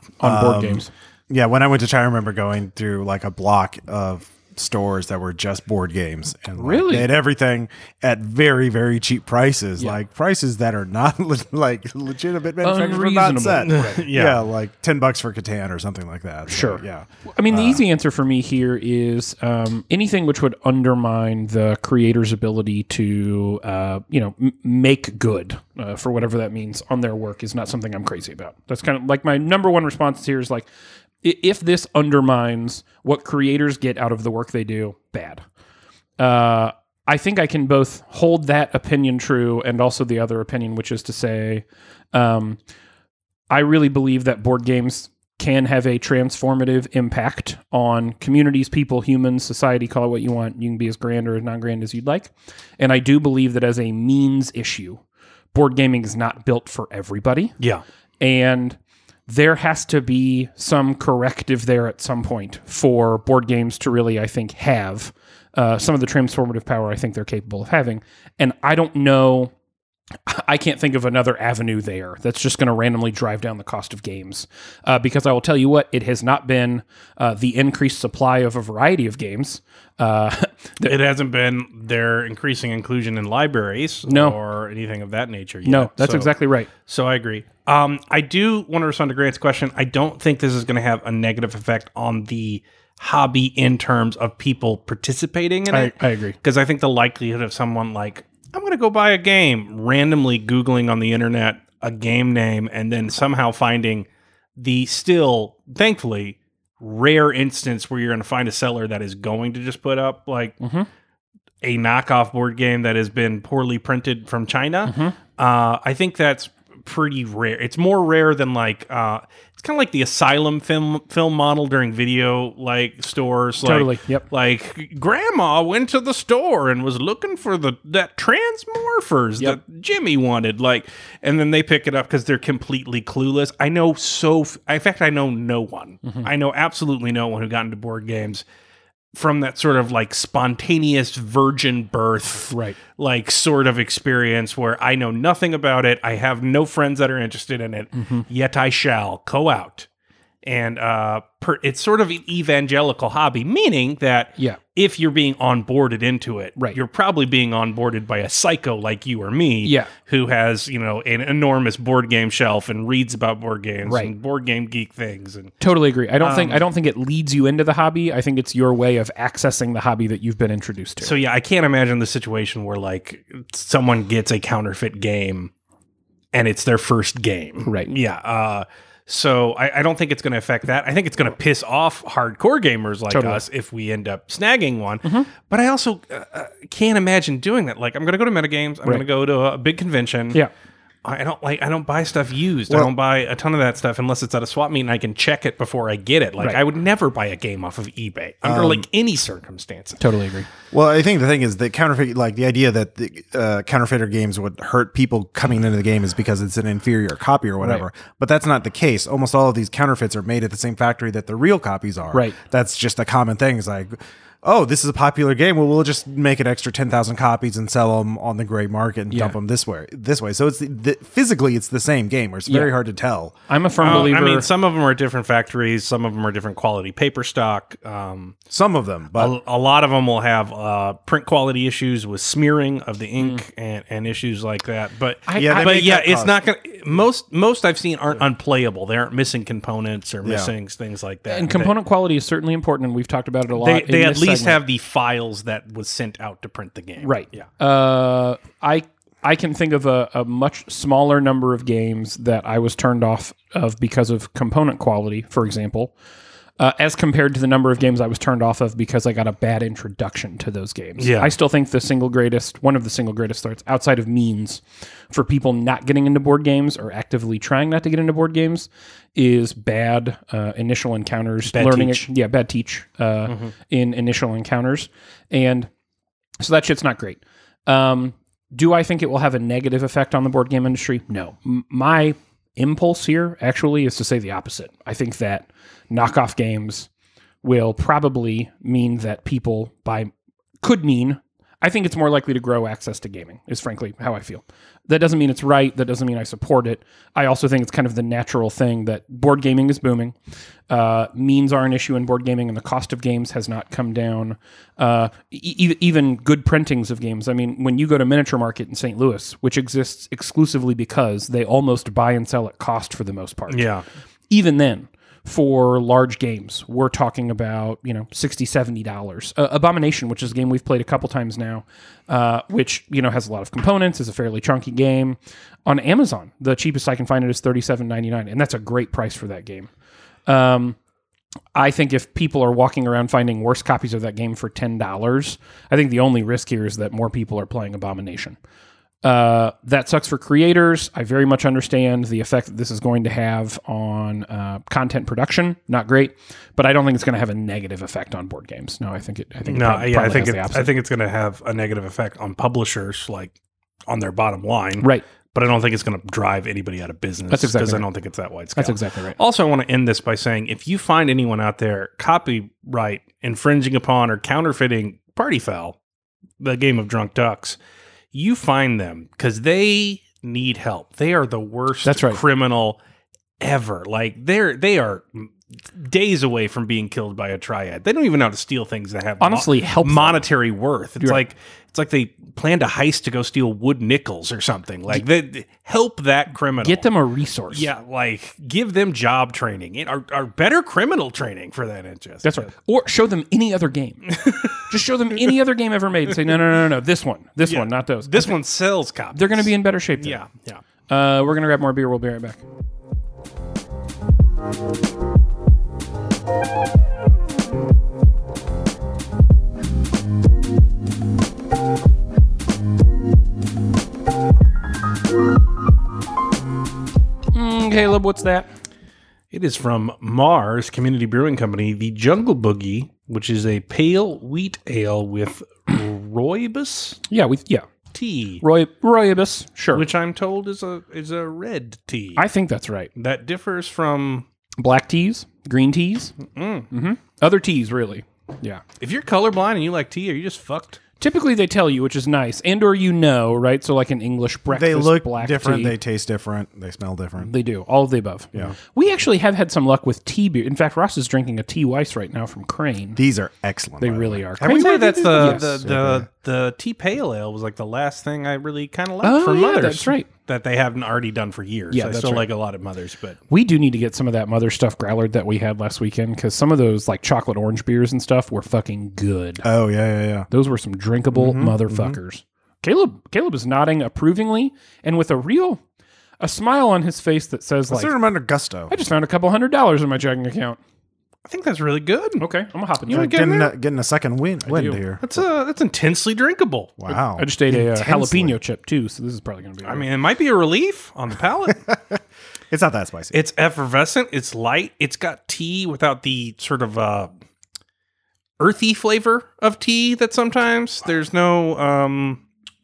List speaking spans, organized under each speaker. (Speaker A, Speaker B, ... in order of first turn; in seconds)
Speaker A: 0.2-0.9, 6.6-7.1, 12.6-14.0, 16.5-30.7, 31.2-35.4, 36.2-42.6, 43.5-55.0, 55.5-57.6, 58.2-69.5, 70.2-80.9, 84.1-84.4, 85.6-86.7, 95.7-96.4, 110.6-110.9, 114.8-115.2, 123.6-124.2, 142.5-142.8, 148.0-148.2, 159.6-159.9, 163.8-164.1, 165.6-171.1, 177.6-177.9, 183.1-183.4, 200.0-200.5, 222.5-222.7, 223.5-224.5, 235.3-235.9, 241.3-244.6, 247.0-255.9, 256.6-275.7, 276.4-286.9, 287.4-290.1, 290.6-300.1, 300.7-313.7, 314.3-329.7, 330.3-330.8, 331.5-338.4, 339.0-350.7, 357.3-357.9, 358.6-359.2, 371.8-372.2, 379.2-380.3, 386.6-387.7, 392.2-398.4, 399.1-400.2, 400.9-402.4, 417.3-418.5, 427.1-427.6, 428.4-429.8, 432.2-432.9, 434.6-436.1, 436.7-438.6, 441.0-445.7, 447.2-453.0, 453.8-455.5, 459.0-460.1, 461.7-462.3, 463.3-469.4, 470.3-475.6, 476.2-477.9, 478.7-480.6, 482.2-483.5, 484.5-484.8, 487.2-489.9
Speaker B: 0.2-17.8, 198.4-198.8, 200.7-223.3, 228.5-229.3, 235.3-236.4, 240.2-240.5, 444.5-447.3, 452.9-456.1, 469.4-470.3, 471.1-472.0, 477.7-478.7, 482.9-485.1, 486.8-488.4, 491.6-493.1
Speaker C: 13.6-14.4, 80.8-110.6, 111.6-138.4, 139.1-149.9, 150.4-165.6, 166.2-166.6, 171.0-175.5, 176.3-190.4, 191.0-200.0, 223.8-228.4, 229.2-241.8, 243.5-247.5, 261.0-261.3, 271.5-272.1, 273.3-273.5, 313.5-313.8, 349.5-353.3, 353.9-365.8, 366.4-367.6, 368.1-372.8, 373.4-386.9, 387.5-392.5, 394.1-394.7, 397.4-400.6, 419.3-427.0, 427.9-428.4, 429.7-432.2, 432.9-434.2, 436.2-436.7, 438.8-440.8, 454.4-463.2, 481.3-482.2, 485.0-486.8, 489.6-491.7, 493.1-497.1, 498.4-502.2